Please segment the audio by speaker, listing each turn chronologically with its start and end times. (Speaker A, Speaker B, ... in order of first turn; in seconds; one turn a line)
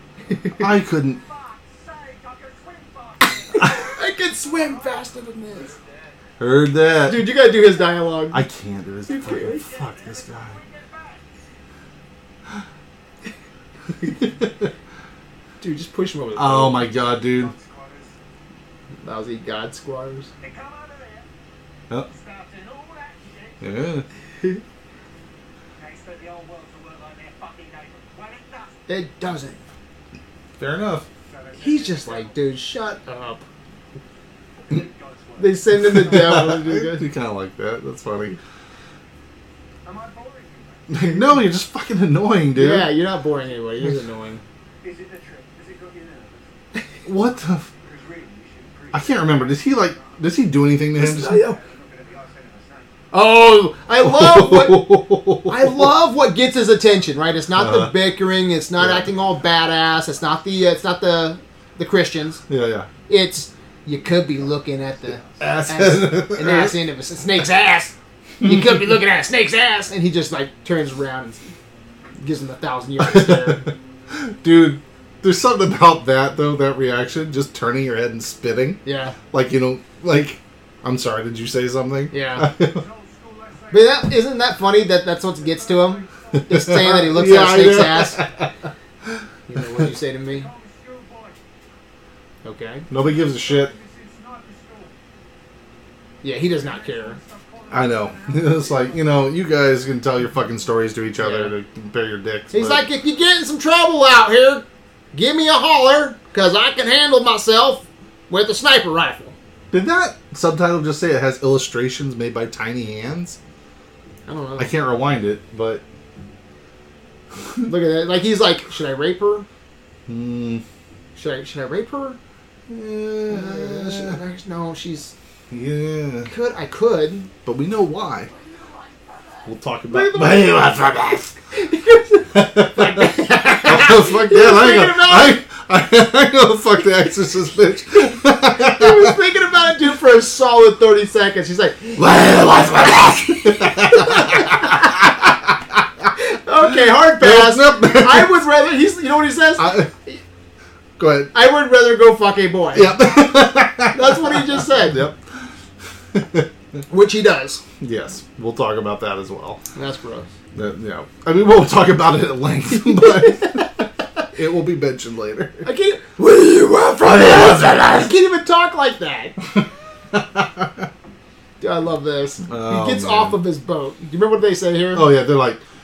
Speaker A: 0.5-6.2
Speaker B: 0.6-1.2
Speaker C: 3.5-5.7
Speaker B: 6.4-7.2
Speaker C: 7.0-8.4
Speaker B: 8.3-10.6
Speaker C: 9.1-9.7
Speaker A: 9.2-11.3
Speaker B: 14.1-14.7
Speaker C: 15.6-16.9
Speaker B: 16.4-17.5
Speaker A: 17.1-18.1
Speaker C: 19.0-20.3
Speaker A: 20.4-21.3
Speaker A: 22.0-23.8
Speaker B: 23.6-24.0
Speaker A: 25.8-28.9
Speaker C: 28.9-29.6
Speaker B: 30.6-31.1
Speaker A: 31.2-32.4
Speaker C: 31.6-33.4
Speaker A: 34.6-35.6
Speaker C: 35.4-37.0
Speaker B: 35.8-38.4
Speaker A: 39.8-41.0
Speaker B: 40.9-42.9
Speaker C: 42.5-44.4
Speaker A: 44.8-50.4
Speaker B: 47.0-47.6
Speaker B: 48.9-51.4
Speaker C: 50.9-51.6
Speaker A: 51.0-53.0
Speaker C: 53.1-62.4
Speaker B: 54.0-55.9
Speaker B: 57.5-58.0
Speaker B: 58.8-59.1
Speaker B: 62.5-62.9
Speaker C: 63.1-71.5
Speaker B: 65.4-66.8
Speaker B: 68.4-68.7
Speaker C: 72.2-73.7
Speaker B: 73.0-82.8
Speaker C: 78.8-79.2
Speaker C: 82.1-82.5
Speaker A: 82.6-84.2
Speaker C: 83.7-88.2
Speaker A: 85.3-86.6
Speaker B: 86.4-88.5
Speaker C: 89.5-90.5
Speaker A: 90.1-91.4
Speaker C: 92.4-92.9
Speaker B: 92.9-93.7
Speaker A: 92.9-95.0
Speaker C: 96.2-97.2
Speaker A: 96.3-99.3
Speaker B: 97.7-102.8
Speaker C: 101.2-101.5
Speaker C: 102.5-109.3
Speaker B: 109.7-113.4
Speaker C: 114.3-114.7
Speaker B: 114.6-115.8
Speaker C: 117.7-119.5
Speaker B: 120.1-120.6
Speaker C: 121.1-122.2
Speaker B: 122.7-124.2
Speaker C: 123.3-125.1
Speaker B: 125.5-126.3
Speaker C: 126.3-127.3
Speaker B: 127.4-128.3
Speaker B: 129.4-131.3
Speaker C: 129.9-130.8
Speaker C: 131.5-135.4
Speaker B: 132.3-139.2
Speaker C: 138.5-145.1
Speaker B: 142.0-145.5
Speaker C: 146.1-150.2
Speaker B: 147.2-148.4
Speaker B: 149.6-149.9
Speaker B: 151.0-151.3
Speaker C: 151.3-153.1
Speaker B: 152.7-155.4
Speaker C: 153.9-155.0
Speaker B: 156.1-156.5
Speaker C: 156.9-157.6
Speaker B: 157.8-159.6
Speaker C: 159.7-160.3
Speaker B: 160.5-165.7
Speaker C: 162.8-163.7
Speaker C: 165.6-169.4
Speaker B: 167.2-167.7
Speaker B: 170.1-170.8
Speaker C: 171.6-175.1
Speaker B: 172.5-173.4
Speaker B: 174.9-175.6